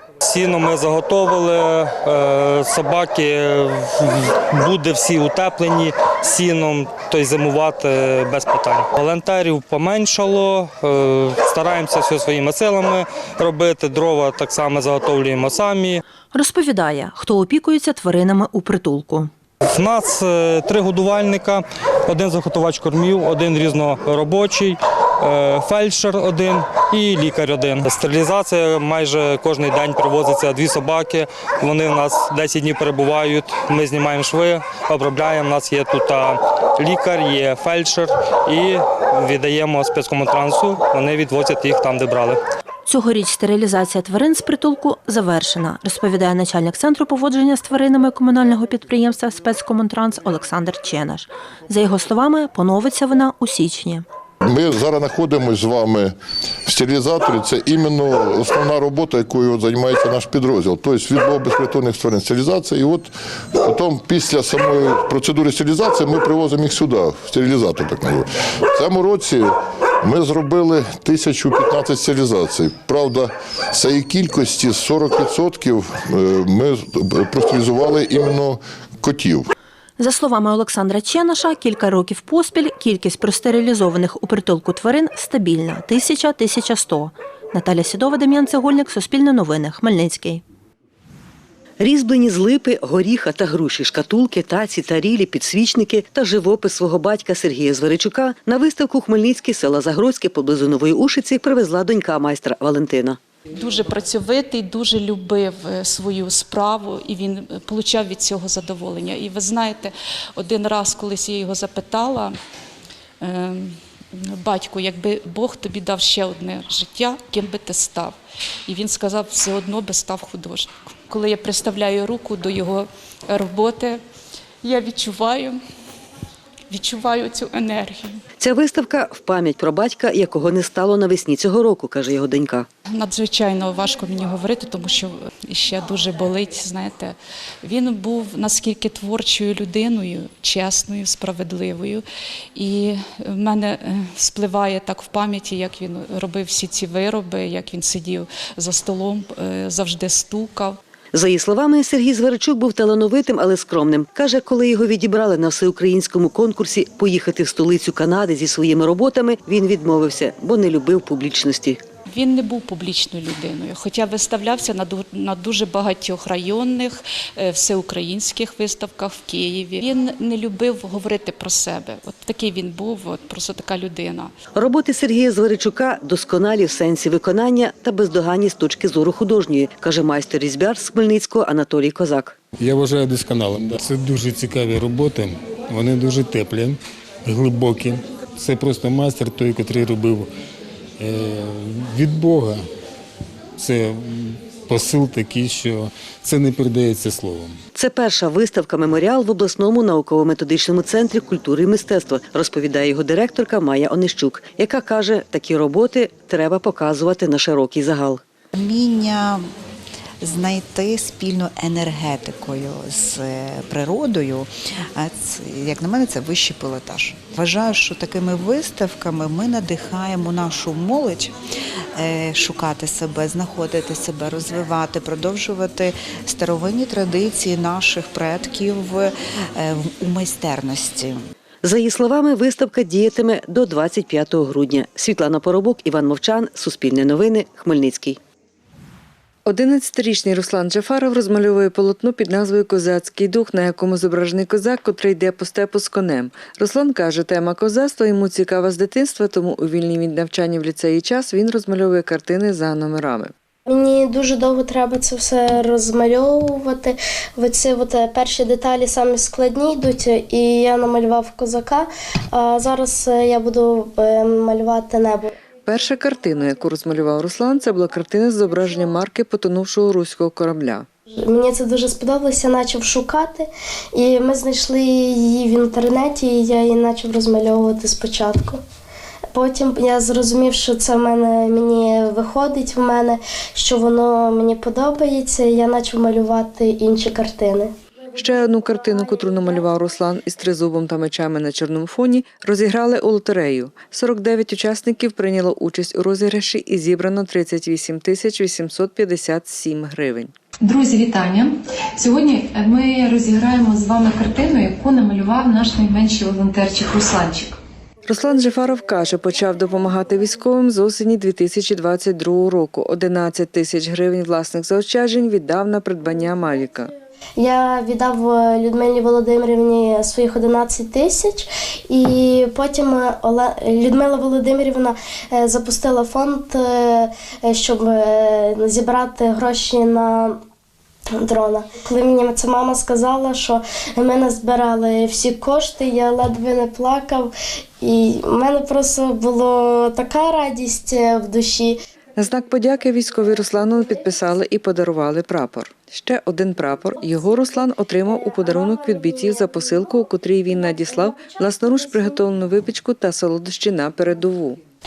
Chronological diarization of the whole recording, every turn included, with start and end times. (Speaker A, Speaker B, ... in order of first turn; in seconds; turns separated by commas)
Speaker A: 0.2-16.0, Speaker B: 16.3-19.3, Speaker A: 19.7-42.4, Speaker B: 42.9-54.0, Speaker C: 54.5-56.1, Speaker C: 56.7-63.1, Speaker C: 63.6-79.5, Speaker B: 80.0-90.4, Speaker D: 91.8-103.2, Speaker E: 103.5-112.3, Speaker E: 113.2-118.2, Speaker E: 118.7-124.0, Speaker E: 124.6-125.6, Speaker E: 126.7-128.2, Speaker D: 128.4-132.7, Speaker E: 132.9-142.0, Speaker E: 142.6-150.8, Speaker D: 151.1-161.8, Speaker E: 162.1-174.3, Speaker D: 174.6-182.4, Speaker F: 182.6-190.3, Speaker F: 191.0-192.6, Speaker F: 193.6-197.6, Speaker D: 197.8-208.2, Speaker G: 208.6-209.3, Speaker G: 211.0-213.0, Speaker G: 213.8-214.4, Speaker G: 215.6-216.8, Speaker G: 217.9-218.3, Speaker G: 222.8-223.2, Speaker G: 226.3-227.7, Speaker G: 228.6-228.9, Speaker G: 230.5-231.0, Speaker D: 231.6-238.2, Speaker H: 239.5-253.3, Speaker I: 253.7-265.3, Speaker H: 265.7-270.9, Speaker I: 271.2-278.6, Speaker I: 279.3-287.7, Speaker H: 288.1-300.3, Speaker J: 300.6-307.6, Speaker H: 308.1-316.9, Speaker I: 317.4-330.4, Speaker I: 331.2-337.3, Speaker I: 337.8-341.8, Speaker H: 342.2-354.6